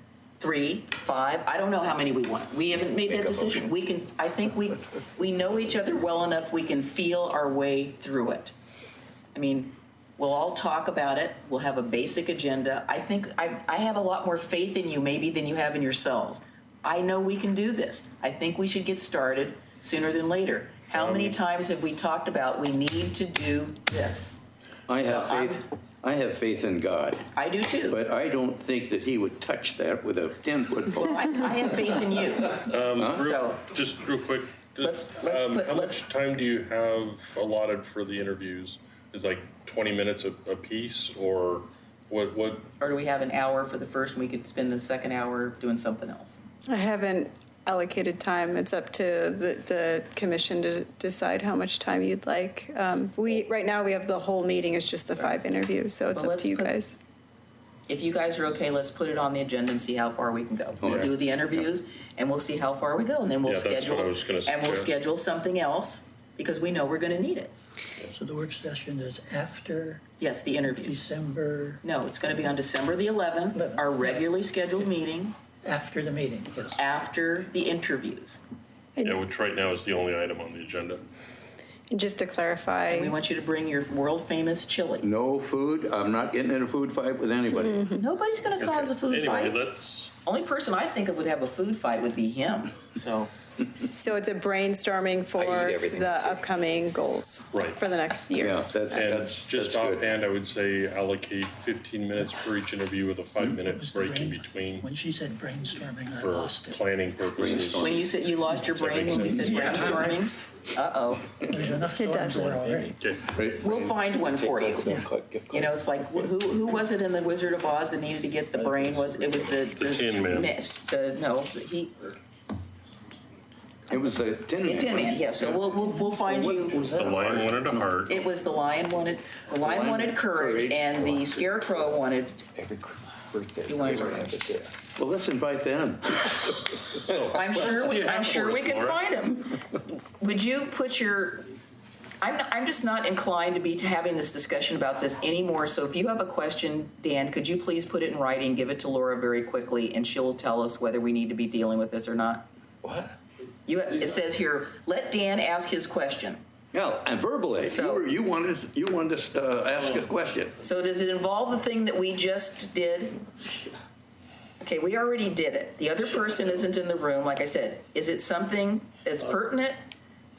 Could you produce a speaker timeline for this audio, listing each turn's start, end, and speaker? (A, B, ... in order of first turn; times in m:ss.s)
0:00.4-0:08.5 A
0:03.0-0:03.7 B
0:09.3-0:24.4 A
0:20.9-0:21.3 C
0:24.9-0:27.3 D
0:25.0-0:25.6 A
0:27.3-0:28.0 A
0:27.9-0:31.6 D
0:30.9-0:33.6 A
0:32.6-0:42.7 C
0:33.0-0:33.4 D
0:34.8-0:36.1 A
0:42.8-0:46.4 A
0:46.7-0:57.0 E
0:56.1-0:56.7 A
0:57.9-1:07.5 A
1:00.8-1:01.1 D
1:00.8-1:01.1 C
1:03.4-1:04.9 C
1:08.1-1:10.0 F
1:10.2-1:11.0 A
1:10.6-1:11.8 F
1:11.8-1:15.4 A
1:13.5-1:14.2 F
1:15.6-1:16.8 F
1:16.7-1:18.4 A
1:19.0-1:21.0 C
1:21.9-1:23.2 E
1:22.8-1:25.1 A
1:25.0-1:27.8 D
1:27.5-1:28.0 E
1:28.0-1:29.6 A
1:28.6-1:30.1 C
1:30.2-1:33.3 A
1:33.8-1:39.0 E
1:35.3-1:36.6 B
1:37.5-1:37.8 C
1:38.4-1:40.1 D
1:38.9-1:44.8 C
1:43.4-1:46.8 F
1:46.2-1:48.1 C
1:47.3-1:48.0 D
1:47.8-1:51.3 A
1:48.6-1:49.9 C
1:49.3-1:50.2 F
1:51.5-1:53.0 F
1:51.9-1:52.5 E
1:52.5-1:53.6 C
1:53.3-1:53.6 D
1:53.6-2:02.1 A
1:53.6-1:55.8 B
1:58.5-1:59.9 B
1:59.8-2:00.5 C
2:03.9-2:05.3 D
2:04.6-2:06.9 A
2:05.8-2:07.2 F
2:06.7-2:07.9 D
2:06.9-2:08.2 C
2:08.0-2:12.4 A
2:09.5-2:11.2 D
2:12.5-2:14.8 B
2:13.6-2:14.3 A
2:15.0-2:16.4 D
2:17.0-2:19.0 C
2:17.1-2:17.8 D
2:17.3-2:21.5 A
2:22.2-2:32.5 A
2:32.8-2:33.2 B
2:33.6-2:36.4 A
2:36.7-2:40.5 D
2:37.7-2:38.1 A
2:40.6-2:43.2 A
2:44.6-2:49.8 A